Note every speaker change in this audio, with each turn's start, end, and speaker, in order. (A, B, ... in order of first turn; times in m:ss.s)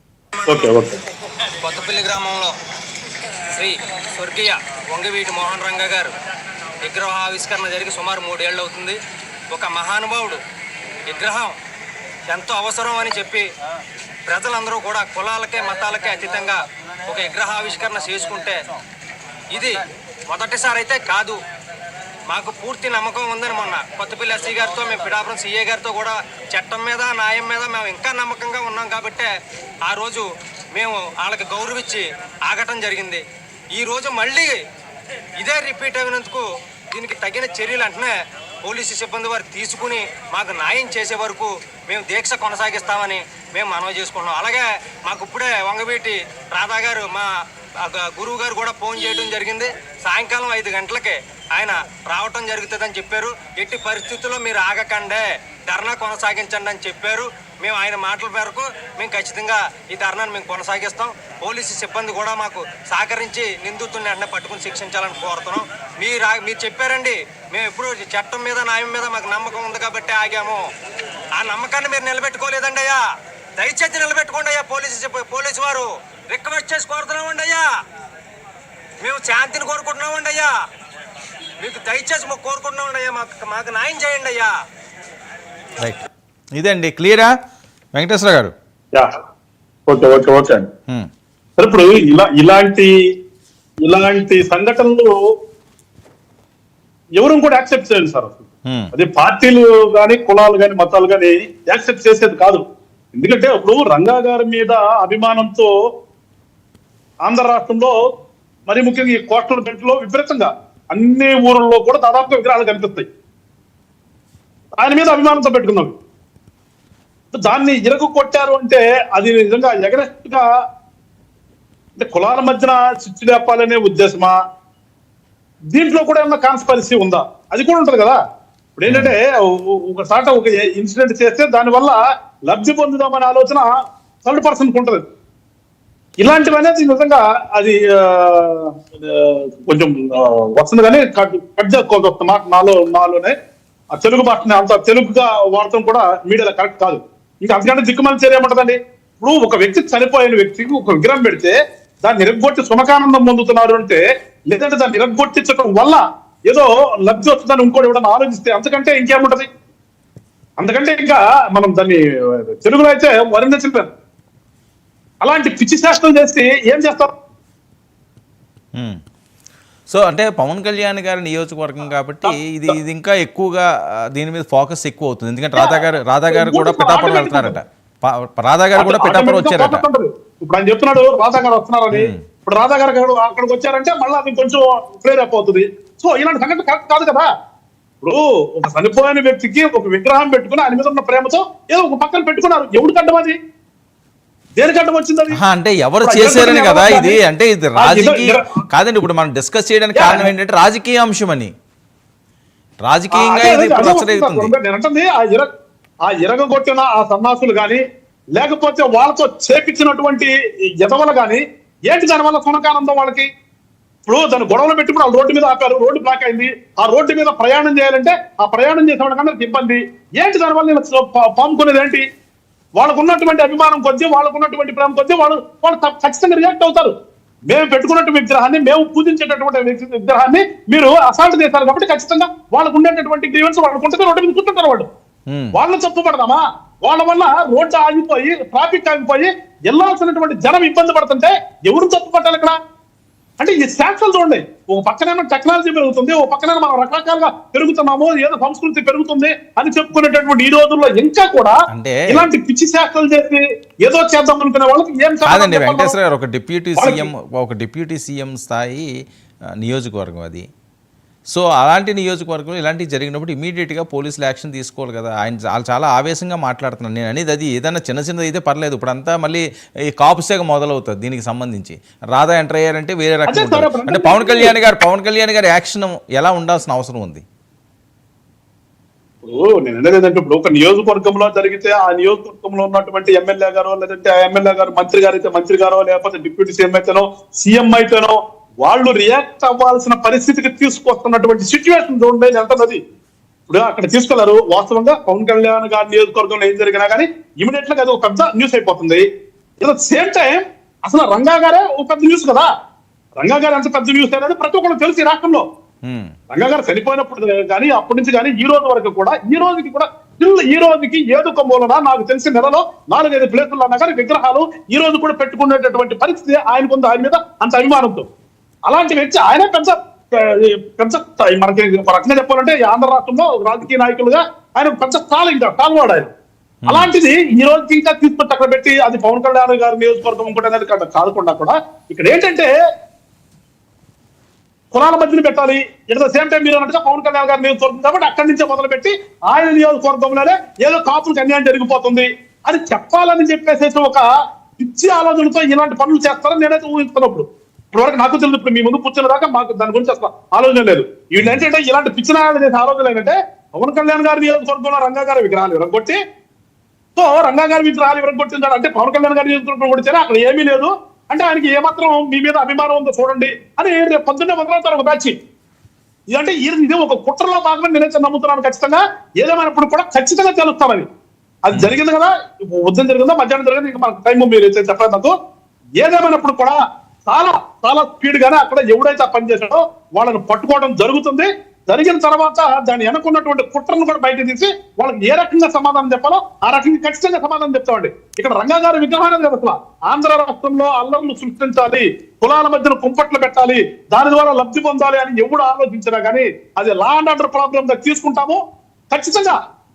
0:00.5-0:01.0 A
0:01.6-0:02.5 B
0:03.6-0:06.1 B
0:06.8-0:09.0 B
0:09.5-0:10.4 B
0:11.1-0:11.6 B
0:12.3-0:13.5 B
0:14.3-0:18.6 B
0:19.5-0:21.4 B
0:22.3-0:29.3 B
0:29.9-0:33.2 B
0:33.7-0:34.5 B
0:35.4-0:47.3 B
0:47.8-1:10.7 B
1:11.4-1:13.0 B
1:13.6-1:17.7 B
1:19.0-1:20.5 B
1:21.6-1:24.5 B
1:26.6-1:27.3 C
1:28.0-1:28.5 C
1:29.9-1:30.7 A
1:31.6-1:32.9 A
1:33.8-1:35.1 A
1:37.2-1:42.6 A
1:43.2-1:45.7 A
1:47.2-1:48.0 A
1:48.7-1:53.1 A
1:54.8-1:56.0 A
1:57.3-2:00.4 A
2:02.0-2:04.3 A
2:05.7-2:08.2 A
2:08.8-2:13.7 A
2:08.9-2:09.1 C
2:14.2-2:15.0 A
2:16.2-2:23.3 A
2:23.9-2:39.5 A
2:40.6-2:43.9 A
2:45.2-2:47.1 A
2:49.9-2:59.8 C
2:52.2-2:52.8 A
2:55.6-2:57.6 A
2:58.7-3:07.3 A
3:01.9-3:02.2 C
3:08.0-3:13.4 A
3:14.6-3:15.4 A
3:15.3-3:21.5 C
3:16.0-3:17.2 A
3:17.8-3:18.5 A
3:20.0-3:20.3 A
3:22.8-3:24.5 C
3:23.1-3:25.5 A
3:26.1-3:27.8 A
3:28.4-3:33.3 A
3:34.1-3:42.0 A
3:42.8-3:46.9 A
3:47.5-3:54.9 A
3:55.3-3:55.6 C
3:55.5-4:02.6 A
4:03.4-4:11.6 A
4:11.7-4:12.3 C
4:12.1-4:16.0 A
4:15.3-4:18.9 C
4:16.8-4:17.1 A
4:19.6-4:20.5 C
4:21.3-4:29.4 C
4:30.0-4:37.2 C
4:33.3-4:34.6 A
4:39.3-4:52.8 A
4:53.5-4:59.0 A
4:59.6-5:02.5 A
5:03.2-5:05.4 A
5:05.9-5:06.2 C
5:06.3-5:18.1 A
5:18.7-5:26.1 A
5:26.7-5:26.9 C
5:26.7-5:32.5 A
5:34.7-5:56.0 A
5:57.0-6:05.1 A
6:06.1-6:10.9 A
6:11.4-6:15.1 A
6:15.8-6:39.4 A